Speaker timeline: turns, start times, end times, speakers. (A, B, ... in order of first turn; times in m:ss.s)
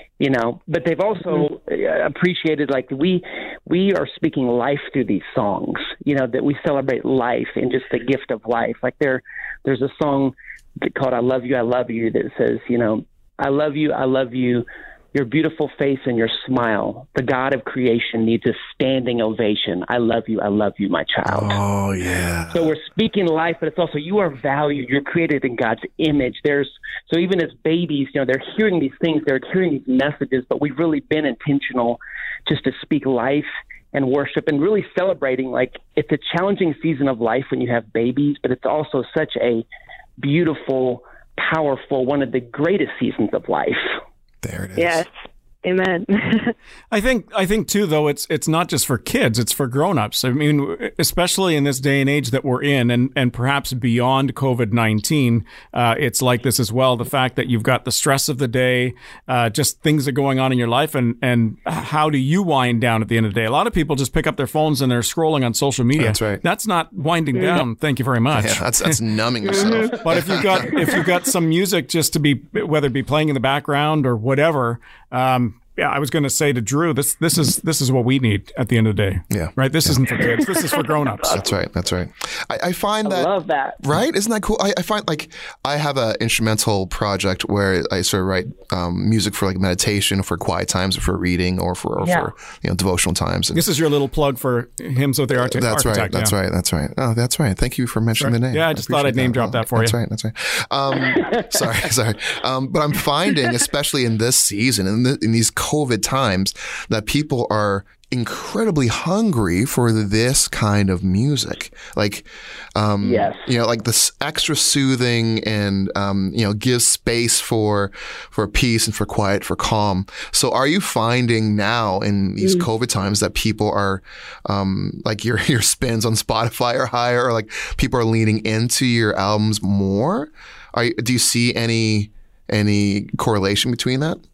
0:00.2-0:21.6 A
0:21.2-0:22.7 B
0:22.5-0:39.6 A
0:40.2-0:44.0 A
0:44.4-0:45.0 B
0:44.8-0:45.1 C
0:45.6-0:46.5 C
0:46.9-1:09.0 D
1:06.0-1:06.4 B
1:07.4-1:07.6 C
1:08.3-1:11.1 B
1:09.5-1:09.9 C
1:10.0-1:21.4 D
1:19.3-1:20.1 B
1:21.3-1:33.6 B
1:23.0-1:23.8 A
1:32.0-1:32.3 A
1:33.5-1:36.3 D
1:35.4-2:14.2 B
1:38.2-1:39.9 D
1:41.2-1:41.6 A
1:53.0-1:53.5 A